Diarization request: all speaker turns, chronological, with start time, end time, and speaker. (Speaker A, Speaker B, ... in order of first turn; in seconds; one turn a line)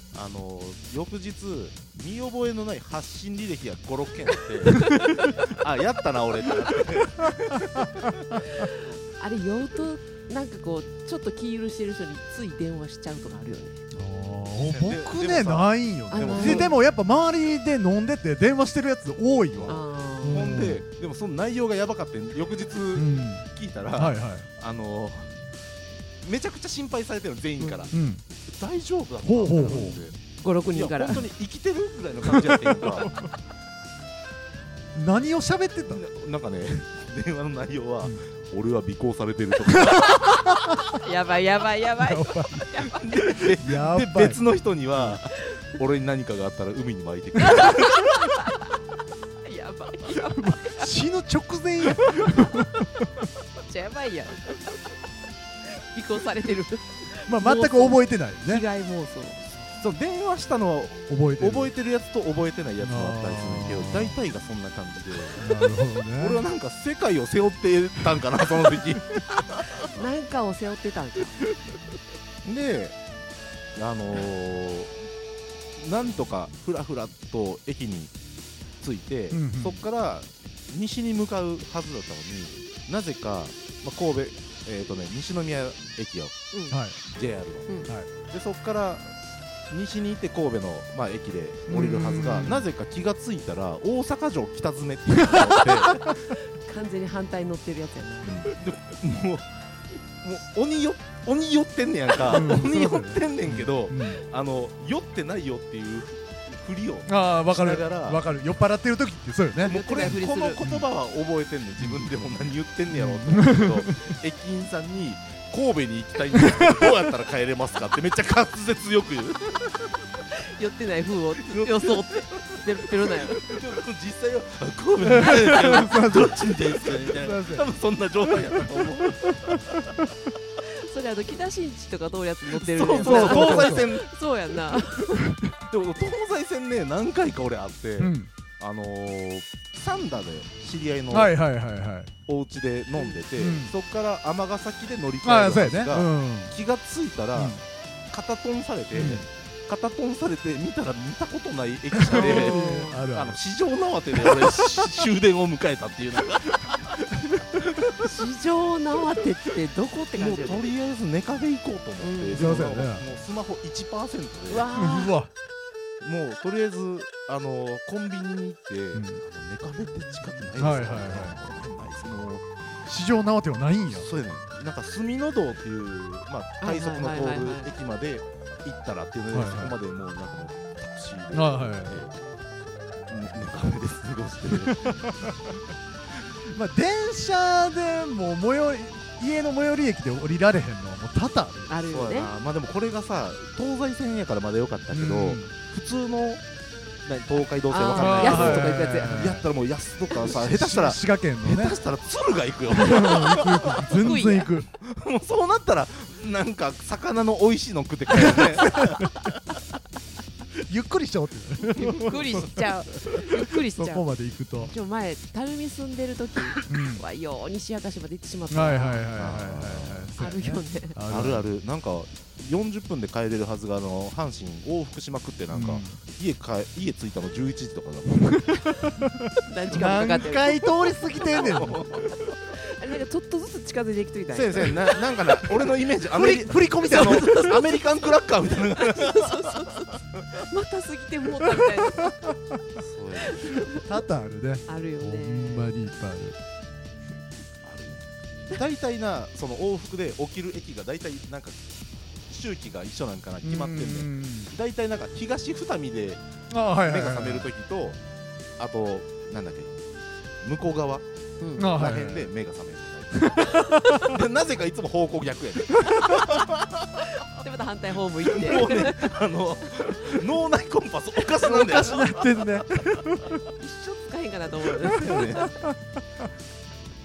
Speaker A: 0.1-8.4
Speaker B: 8.4-13.8
Speaker C: 13.9-20.9
Speaker A: 14.7-16.8
Speaker B: 16.1-16.8
Speaker A: 19.5-25.4
Speaker B: 19.7-20.7
Speaker C: 22.9-24.5
Speaker A: 26.2-30.2
Speaker B: 27.6-27.9
Speaker C: 27.9-28.2
Speaker C: 29.2-30.0
Speaker B: 29.6-31.3
Speaker A: 30.7-33.1
Speaker C: 32.2-33.3
Speaker C: 35.0-36.0
Speaker A: 35.9-40.5
Speaker C: 39.7-40.3
Speaker B: 40.9-43.1
Speaker C: 42.0-44.4
Speaker A: 42.9-48.1
Speaker B: 45.4-45.7
Speaker B: 47.4-48.8
Speaker B: 49.4-50.9
Speaker C: 50.3-53.1
Speaker B: 53.6-54.8
Speaker B: 55.7-59.7
Speaker C: 57.3-58.6
Speaker A: 59.8-65.6
Speaker C: 61.1-61.7
Speaker C: 62.8-64.2
Speaker C: 65.4-66.4
Speaker A: 66.1-70.0
Speaker B: 69.8-71.5
Speaker A: 72.5-73.0
Speaker A: 73.8-74.9
Speaker A: 75.8-78.1
Speaker A: 78.8-86.3
Speaker C: 79.3-79.8
Speaker B: 86.5-86.8
Speaker C: 86.7-87.0
Speaker A: 87.1-89.1
Speaker A: 89.7-96.0
Speaker C: 91.7-92.7
Speaker B: 96.0-98.5
Speaker A: 98.2-99.5
Speaker A: 100.2-108.2
Speaker C: 102.3-104.2
Speaker C: 107.1-110.9
Speaker A: 109.6-120.0
Speaker B: 109.7-110.6
Speaker C: 111.8-112.1
Speaker C: 112.9-114.1
Speaker C: 116.3-116.9
Speaker B: 120.3-123.4
Speaker A: 121.5-130.1
Speaker C: 125.0-127.7
Speaker C: 128.2-130.0
Speaker B: 130.6-135.3
Speaker C: 132.8-133.9
Speaker A: 132.8-134.1
Speaker C: 135.1-135.5
Speaker A: 135.7-141.4
Speaker C: 138.0-138.3
Speaker C: 141.1-142.1
Speaker A: 142.3-147.6
Speaker B: 143.0-143.2
Speaker C: 143.4-143.7
Speaker C: 145.2-146.6
Speaker C: 147.3-147.6
Speaker A: 148.1-158.2
Speaker C: 148.9-149.2
Speaker C: 151.9-153.4
Speaker B: 152.1-153.0
Speaker C: 154.1-154.9
Speaker B: 158.0-160.7
Speaker A: 160.1-164.7
Speaker B: 162.0-162.6
Speaker C: 162.3-163.1
Speaker B: 164.5-165.2
Speaker C: 164.7-165.3
Speaker A: 166.0-172.5
Speaker C: 168.9-169.2
Speaker C: 170.6-171.4
Speaker C: 172.9-174.1
Speaker A: 173.9-182.2
Speaker B: 176.6-177.7
Speaker C: 179.3-179.8
Speaker C: 181.3-182.0
Speaker A: 183.1-185.4
Speaker C: 184.5-185.3
Speaker C: 186.5-191.7
Speaker B: 191.7-192.3
Speaker A: 191.9-196.4
Speaker C: 194.9-195.5
Speaker A: 197.0-204.1
Speaker B: 197.7-199.3
Speaker C: 198.0-199.4
Speaker C: 200.2-201.8
Speaker C: 202.7-204.7
Speaker B: 204.0-204.6
Speaker A: 204.8-209.4
Speaker C: 208.1-209.2
Speaker C: 210.7-214.7
Speaker A: 211.9-212.3
Speaker B: 212.0-219.1
Speaker C: 216.7-217.0
Speaker C: 218.5-221.5
Speaker A: 219.1-220.2
Speaker B: 220.2-221.0
Speaker A: 221.1-228.6
Speaker C: 225.5-226.0
Speaker C: 228.3-231.8
Speaker B: 229.5-230.9
Speaker A: 229.7-230.2
Speaker A: 231.2-232.2
Speaker B: 232.5-235.0
Speaker A: 234.3-239.9
Speaker C: 236.1-237.6
Speaker B: 236.8-237.6
Speaker B: 238.7-242.2
Speaker C: 241.6-242.6
Speaker A: 242.8-243.7
Speaker B: 243.3-243.9
Speaker C: 243.8-246.4
Speaker B: 244.7-245.7
Speaker A: 247.6-251.6
Speaker A: 252.3-256.2
Speaker C: 253.4-254.5
Speaker C: 256.5-257.5
Speaker A: 256.8-258.0
Speaker A: 258.6-259.8
Speaker A: 260.4-261.0
Speaker B: 261.4-261.7
Speaker C: 261.6-262.3
Speaker A: 261.6-267.2
Speaker C: 263.1-264.2
Speaker B: 263.5-263.9
Speaker B: 267.2-269.2
Speaker A: 268.2-272.5
Speaker C: 271.4-273.4
Speaker B: 273.6-275.7
Speaker A: 274.9-275.5
Speaker C: 274.9-275.6